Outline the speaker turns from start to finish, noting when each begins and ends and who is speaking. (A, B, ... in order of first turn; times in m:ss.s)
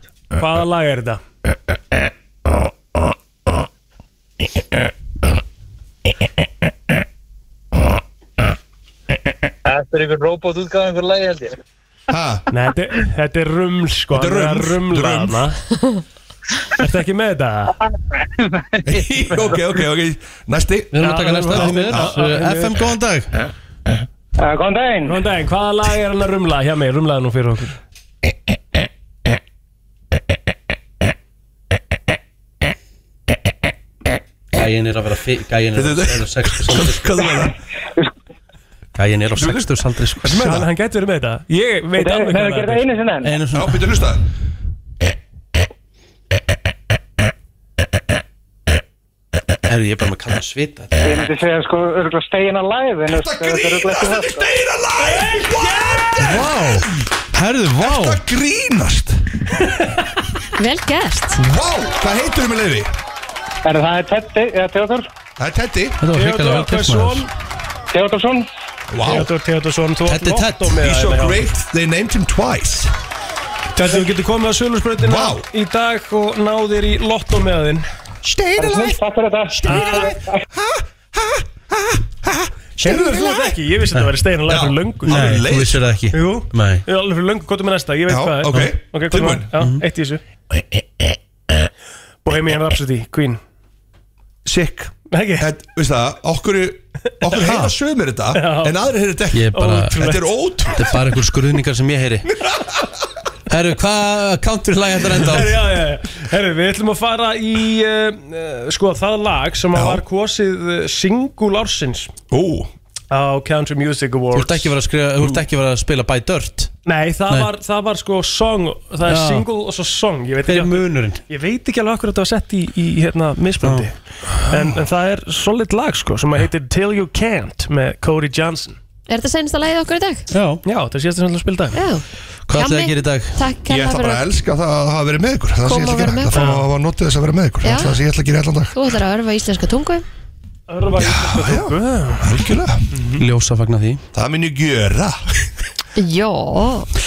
0:00.4-0:01.2 A
0:09.6-0:11.6 B
0:12.1-0:12.4 C
0:12.5-0:15.6 A
0:14.1-0:15.4 C
0:16.8-0:17.8 A
0:18.8-0:22.1 C
0:20.9-0:23.3 D
0:21.0-0:22.8 A
0:24.4-0:25.1 E
0:25.0-0:27.8 A
0:34.5-0:37.4 D
0:35.7-0:37.5 C
0:39.0-0:40.6 D
0:39.3-0:39.6 C
0:40.2-0:42.9 A
0:42.0-0:43.3 E
0:43.2-0:44.0 D
0:43.5-0:44.2 C
0:49.7-0:51.1 D
0:51.0-0:54.3 E
0:53.1-0:56.4 C
0:55.0-0:56.8 A
0:56.4-0:56.8 D
0:57.3-0:58.2 D
0:57.8-0:59.2 C
1:00.6-1:01.4 F
1:01.4-1:02.9 C
1:03.6-1:05.1 E
1:05.4-1:06.0 C
1:06.0-1:07.3 D
1:06.1-1:07.3 A
1:07.9-1:08.5 E
1:08.9-1:09.3 C
1:09.0-1:11.4 A
1:10.1-1:10.8 D
1:10.8-1:12.9 C
1:13.7-1:17.8 A
1:15.0-1:15.4 C
1:18.2-1:23.6 C
1:18.6-1:19.6 E
1:19.6-1:20.1 A
1:22.8-1:25.4 A
1:24.5-1:25.8 C
1:25.0-1:26.8 D
1:26.1-1:30.2 A
1:28.1-1:29.5 C
1:29.6-1:29.8 D
1:32.2-1:33.4 A
1:34.4-1:41.0 C
1:35.1-1:35.5 A
1:37.3-1:37.7 D
1:38.3-1:38.7 A
1:39.3-1:40.0 D
1:39.5-1:40.2 A
1:40.7-1:42.2 D
1:43.5-1:45.6 D
1:45.2-1:52.1 A
1:49.7-1:50.0 C
1:52.3-1:52.7 C
1:53.1-1:54.7 A
1:54.3-1:56.7 D
1:56.8-2:03.9 A
1:59.0-1:59.4 D
2:00.4-2:01.2 D
2:03.6-2:03.9 D
2:04.5-2:08.8 A
2:09.1-2:10.3 F
2:10.3-2:10.6 D
2:10.6-2:11.8 A
2:11.7-2:14.2 F
2:12.5-2:13.4 D
2:13.6-2:18.7 C
2:15.6-2:16.4 F
2:16.3-2:16.7 A
2:17.6-2:18.0 F
2:18.7-2:20.0 F
2:20.7-2:22.4 A
2:21.0-2:22.8 C
2:22.9-2:23.2 A
2:23.2-2:24.0 D
2:24.1-2:25.2 C
2:26.0-2:26.9 F